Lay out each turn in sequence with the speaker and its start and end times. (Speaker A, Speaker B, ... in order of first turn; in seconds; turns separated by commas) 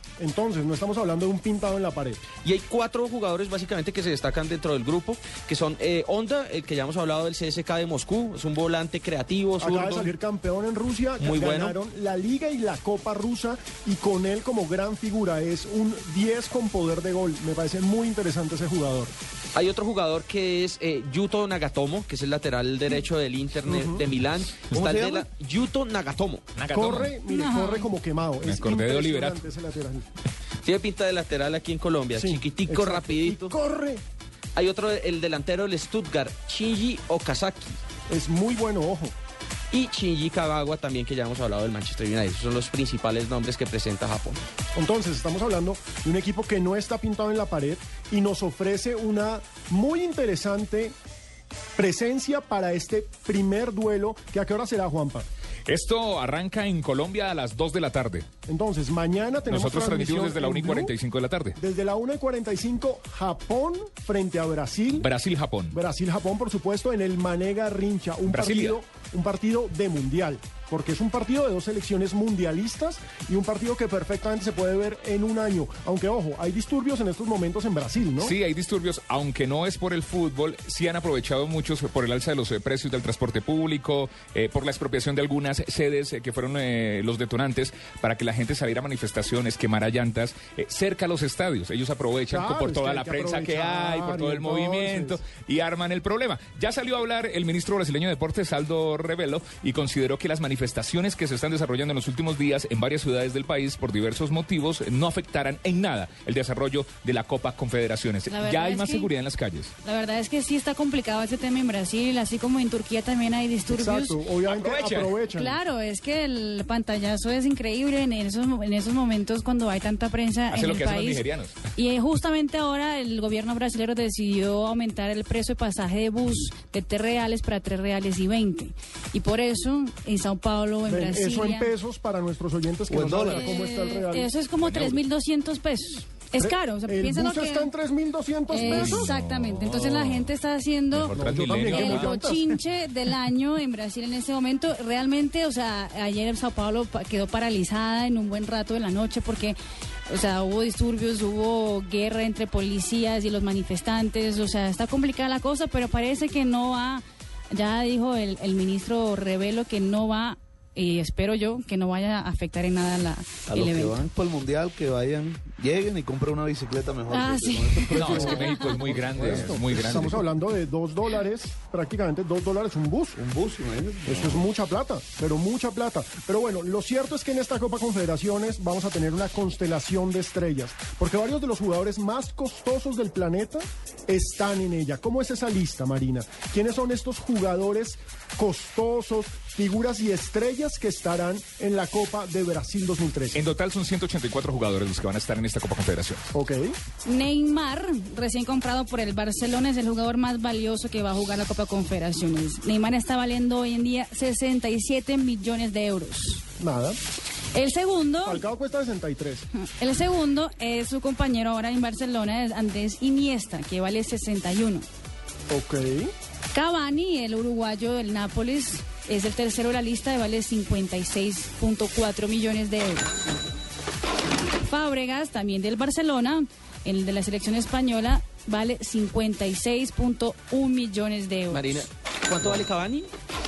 Speaker A: 0.2-2.2, Speaker B: 2.4-10.1, Speaker A: 9.6-19.1, Speaker B: 11.2-11.8, Speaker B: 19.5-26.5, Speaker A: 23.6-24.0, Speaker C: 24.7-25.2, Speaker D: 26.6-27.1, Speaker A: 26.7-30.1, Speaker E: 27.3-27.9, Speaker D: 28.4-29.4, Speaker B: 30.6-33.5, Speaker A: 32.1-34.0, Speaker B: 34.5-37.8, Speaker A: 38.1-39.1, Speaker B: 39.7-44.4, Speaker A: 44.7-50.9, Speaker A: 51.8-55.2, Speaker D: 55.7-58.3, Speaker A: 58.5-60.9, Speaker D: 59.5-61.6, Speaker A: 61.5-65.1, Speaker D: 65.0-65.8, Speaker A: 65.7-78.3, Speaker D: 68.3-68.8, Speaker D: 78.2-109.7, Speaker A: 92.3-95.2, Speaker E: 108.3-109.1, Speaker E: 109.8-114.2, Speaker A: 113.7-115.5, Speaker D: 114.5-115.2, Speaker E: 115.3-131.7, Speaker D: 120.5-121.6, Speaker A: 130.9-134.3, Speaker C: 132.9-133.5, Speaker E: 133.3-137.7, Speaker D: 134.6-135.0, Speaker A: 136.4-139.1, Speaker E: 138.5-149.6, Speaker D: 138.6-140.3, Speaker D: 140.9-142.1, Speaker A: 141.1-142.6, Speaker E: 150.1-164.0, Speaker C: 163.5-168.6, Speaker E: 167.1-168.8, Speaker D: 167.9-170.2, Speaker A: 168.0-173.2, Speaker C: 173.2-174.4, Speaker A: 174.1-193.4, Speaker D: 193.3-196.2, Speaker A: 196.3-196.8, Speaker E: 197.0-206.4, Speaker A: 206.6-207.0, Speaker E: 207.5-208.4, Speaker A: 208.2-209.5, Speaker E: 209.6-214.8, Speaker A: 215.5-216.1, Speaker E: 216.5-223.3, Speaker E: 224.6-231.8, Speaker B: 231.5-233.1